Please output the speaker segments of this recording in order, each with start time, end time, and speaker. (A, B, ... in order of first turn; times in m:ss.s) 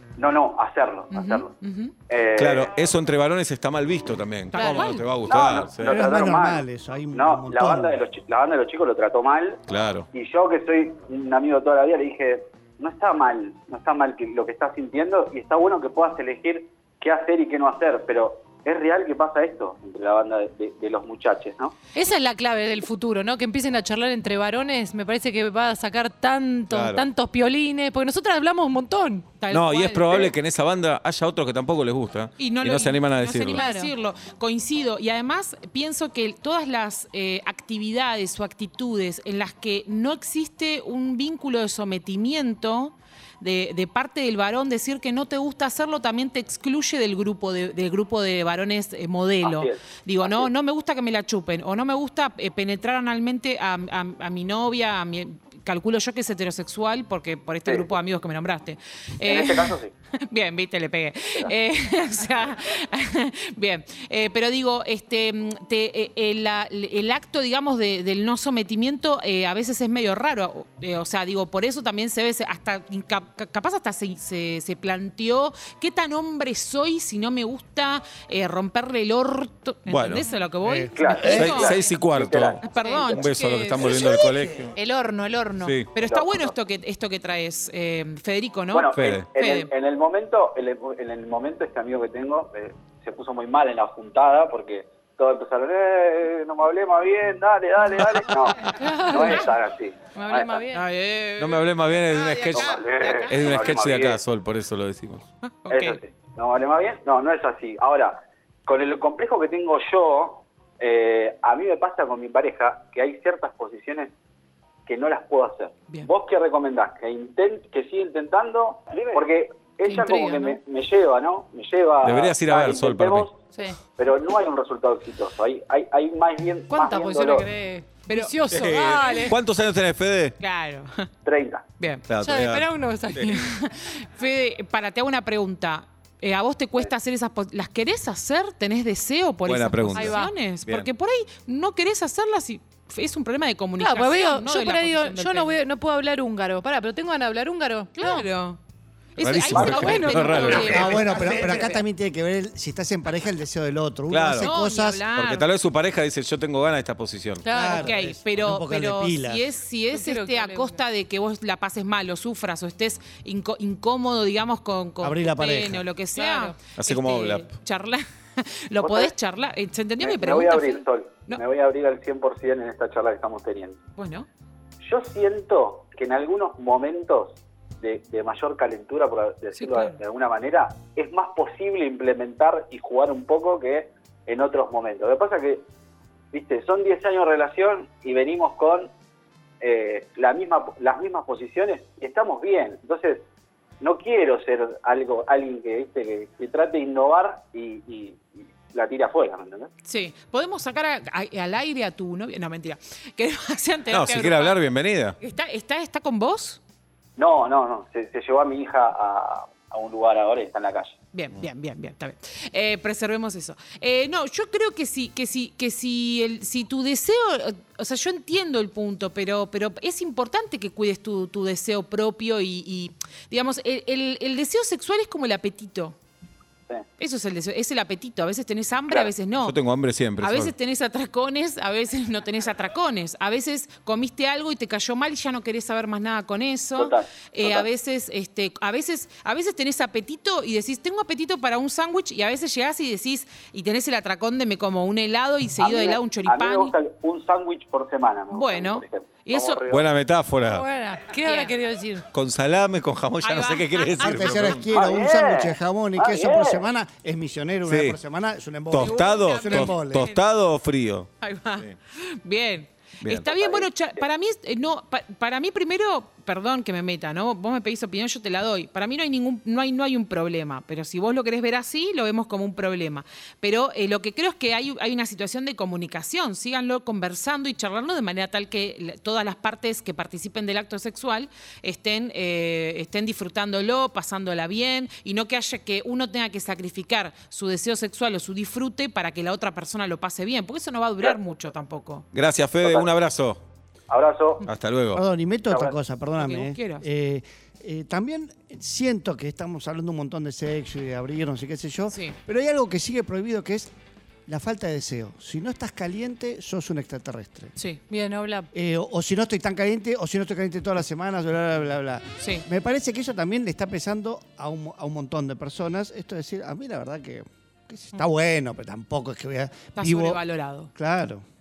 0:00.2-0:01.5 A
0:01.1-0:01.9 B
0:02.1-0:02.7 A
0:02.4-0:06.0 C
0:04.5-0:05.1 B
0:04.5-0:05.0 D
0:05.2-0:21.7 A
0:05.8-0:08.0 E
0:09.7-0:10.1 C
0:22.0-0:29.3 D
0:26.7-0:27.0 C
0:29.4-0:30.3 B
0:29.5-0:33.6 C
0:32.4-1:21.8 B
0:33.5-0:33.9 D
0:49.4-0:50.5 A
0:59.2-0:59.9 A
1:19.9-1:20.2 C
1:20.6-1:21.6 E
1:20.9-1:23.2 A
1:21.2-1:24.7 C
1:22.6-1:24.2 B
1:24.8-1:29.7 B
1:25.6-1:25.9 C
1:26.0-1:26.5 A
1:28.7-1:40.6 A
1:29.0-1:29.3 C
1:38.6-1:39.5 D
1:40.1-1:40.8 D
1:40.7-1:43.3 B
1:41.4-1:45.3 C
1:42.5-1:44.2 A
1:45.4-1:46.0 B
1:45.7-1:54.1 A
1:54.9-2:07.5 A
1:59.8-2:00.6 D
2:02.0-2:03.3 C
2:06.7-2:09.4 D
2:08.1-2:09.3 B
2:08.5-2:10.4 C
2:10.4-2:11.1 B
2:11.2-2:11.7 A
2:11.8-2:12.1 B
2:12.1-2:13.4 C
2:12.2-2:13.5 D
2:13.3-2:25.5 B
2:19.5-2:20.9 C
2:19.9-2:20.3 D
2:23.8-2:28.3 D
2:28.0-2:28.6 B
2:29.2-2:31.4 B
2:29.2-2:31.3 C
2:29.5-2:30.5 A
2:30.6-2:35.0 E
2:34.1-2:34.5 C
2:34.4-2:35.5 B
2:35.2-2:37.4 C
2:37.4-2:37.9 D
2:37.5-2:39.4 E
2:37.7-2:51.4 B
2:39.9-2:40.8 D
2:45.0-2:45.8 E
2:46.2-2:46.6 D
2:46.8-2:47.5 C
2:48.8-2:49.1 A
2:50.0-2:53.8 A
2:54.0-2:54.3 B
2:54.8-3:05.6 A
2:59.5-3:00.0 B
3:06.3-3:08.9 A
3:09.6-3:13.2 A
3:13.8-3:19.7 A
3:19.9-3:24.6 B
3:23.9-3:25.2 C
3:25.2-3:26.6 B
3:27.2-3:31.0 A
3:31.1-3:46.0 B
3:47.0-3:49.6 B
3:49.4-3:50.5 C
3:50.2-4:06.8 B
3:56.8-3:57.7 A
4:05.6-4:09.7 A
4:08.3-4:09.6 B
4:09.7-4:10.7 C
4:10.4-4:12.0 D
4:11.2-4:11.5 B
4:12.1-4:14.7 C
4:13.2-4:14.4 B
4:14.0-4:20.1 E
4:14.7-4:16.6 A
4:17.7-4:18.0 C
4:18.7-4:21.8 C
4:18.8-4:20.2 B
4:21.2-4:52.0 B
4:23.4-4:24.0 A
4:52.1-4:53.4 C
4:52.6-4:52.9 A
4:53.9-4:54.4 A
4:54.4-4:55.0 C
4:54.9-5:03.7 E
4:55.5-4:55.7 A
4:56.2-4:56.9 B
5:01.9-5:02.2 B
5:04.3-5:07.5 E
5:07.9-5:08.5 D
5:08.5-5:20.2 E
5:12.2-5:12.4 B
5:19.8-5:20.7 B
5:20.7-5:21.2 E